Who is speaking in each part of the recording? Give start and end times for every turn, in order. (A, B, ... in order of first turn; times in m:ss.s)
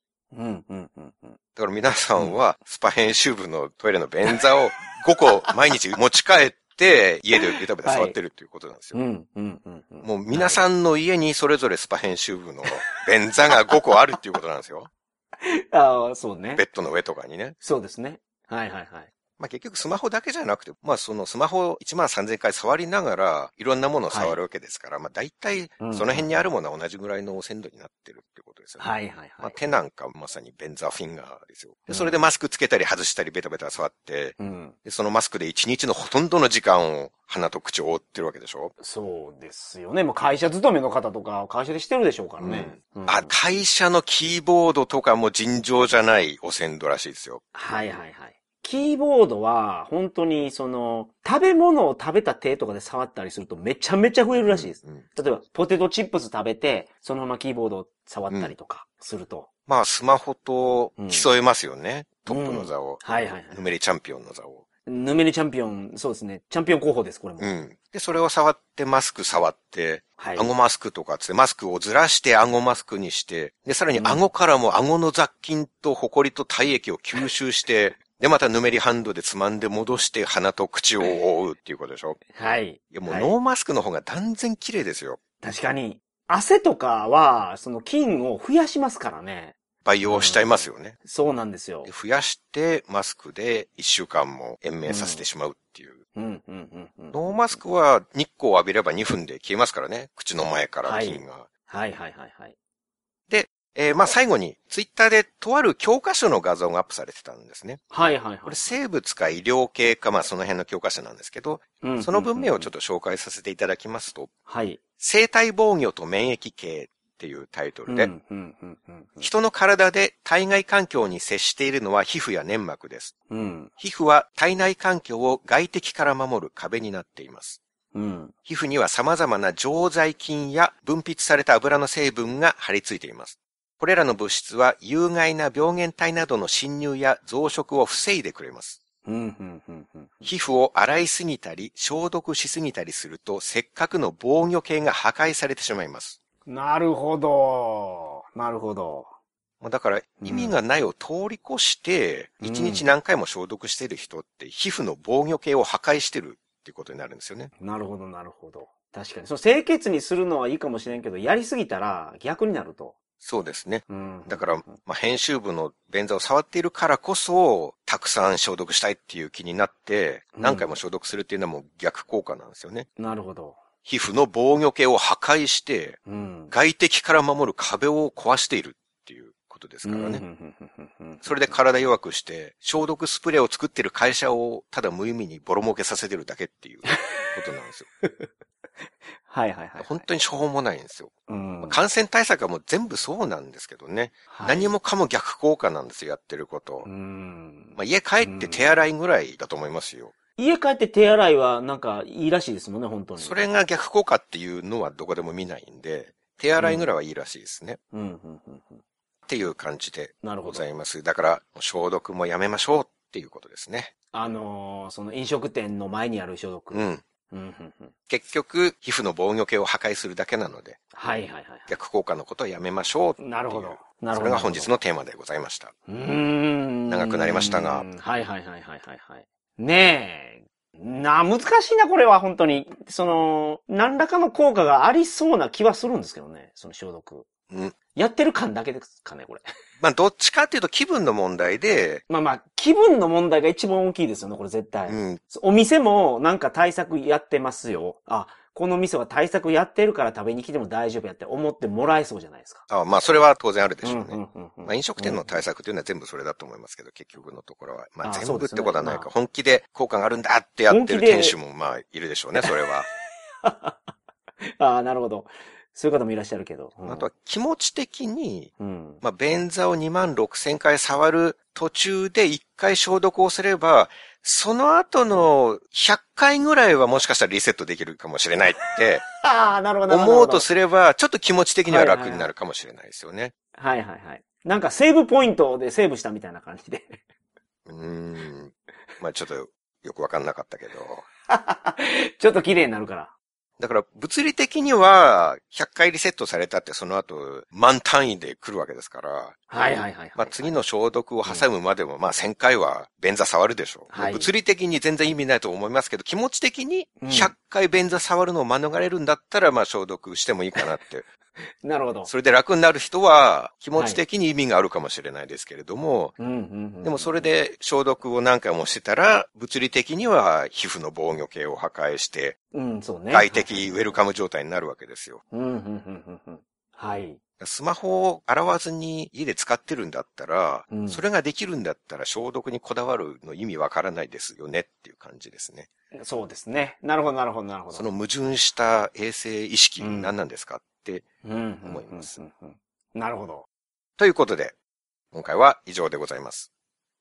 0:00.3-0:01.4 A
0:01.6-0:09.0 B
0:07.4-0:08.2 A
0:08.9-0:10.6 A
0:10.0-0:14.9 B
0:15.4-0:16.6 A
0:16.6-0:17.5 B
0:17.6-0:19.1 A
0:19.4-0:38.7 B
0:24.1-0:24.4 A
0:25.8-0:26.3 A
0:28.8-0:29.6 A
0:31.9-0:32.2 A
0:34.4-0:34.8 A
0:38.8-0:43.3 A
0:42.4-0:47.4 B
0:47.5-0:59.5 A
0:54.5-0:55.0 B
0:59.7-1:04.6 B
1:01.0-1:01.3 A
1:02.3-1:03.6 A
1:04.9-1:07.5 A
1:07.4-1:22.2 B
1:10.2-1:10.5 A
1:13.9-1:14.2 A
1:22.3-1:23.3 A
1:22.9-1:25.2 B
1:25.4-1:31.9 A
1:29.8-1:31.0 B
1:31.8-1:36.0 B
1:34.8-1:35.2 A
1:36.2-1:37.6 A
1:37.1-1:41.5 B
1:40.8-1:42.5 A
1:43.3-1:47.8 B
1:47.9-1:48.8 A
1:48.4-1:54.3 B
1:51.8-1:52.7 A
1:54.5-1:54.8 A
1:55.0-1:58.1 B
1:57.9-1:59.3 A
1:59.2-2:03.1 B
2:03.3-2:03.7 A
2:03.8-2:07.6 B
2:07.9-2:08.3 A
2:08.4-2:18.8 B
2:19.0-2:20.3 A
2:20.2-2:26.2 B
2:26.4-2:29.1 A
2:29.6-2:37.5 B
2:30.2-2:30.6 A
2:32.4-2:32.9 A
2:37.6-2:42.9 A
2:43.2-2:52.9 B
2:43.9-2:44.8 A
2:50.4-2:50.7 A
2:53.0-2:53.6 A
2:53.8-2:56.0 B
2:56.1-2:56.5 A
2:56.5-3:00.2 B
2:59.8-3:01.6 A
3:01.2-3:07.9 B
3:06.9-3:07.1 A
3:08.0-3:08.3 A
3:09.2-3:10.0 A
3:09.8-3:16.9 B
3:11.3-3:11.8 A
3:14.3-3:14.7 A
3:16.8-3:18.8 A
3:17.8-3:20.1 B
3:20.4-3:23.4 A
3:23.2-3:27.8 B
3:26.6-3:26.9 A
3:27.9-3:28.8 A
3:29.3-3:33.9 B
3:30.2-3:30.6 A
3:34.1-3:37.9 A
3:36.7-3:37.0 B
3:38.1-3:40.8 B
3:40.9-3:41.7 A
3:41.7-3:45.7 B
3:43.2-3:44.7 A
3:45.9-3:57.3 A
3:46.9-3:47.9 B
3:57.5-3:57.8 B
3:57.9-3:59.4 A
3:59.8-4:02.0 B
4:02.1-4:12.6 A
4:04.9-4:05.2 B
4:12.7-4:22.9 B
4:13.8-4:15.3 A
4:18.0-4:19.1 A
4:20.7-4:21.4 A
4:23.4-4:23.9 A
4:24.4-4:27.1 A
4:26.9-4:39.1 B
4:28.6-4:29.0 A
4:39.2-4:40.5 A
4:39.9-4:43.3 B
4:41.7-4:42.3 A
4:43.6-4:47.0 A
4:47.7-4:51.0 B
4:51.3-4:53.1 A
4:53.6-4:59.4 B
4:59.5-5:00.5 A
5:00.2-5:11.1 B
5:03.9-5:04.3 A
5:07.0-5:07.3 A
5:11.6-5:12.1 A
5:12.1-5:16.2 B
5:13.8-5:14.0 A
5:16.2-5:17.3 A
5:16.8-5:22.4 B
5:22.5-5:23.8 A
5:23.1-5:25.2 B
5:25.3-5:27.2 A
5:27.4-5:35.7 B
5:30.7-5:31.0 A
5:35.9-5:37.8 A
5:37.7-5:41.0 B
5:39.8-5:40.1 A
5:41.2-5:43.5 A
5:41.6-5:42.1 B
5:44.0-5:44.5 B
5:45.1-5:46.5 B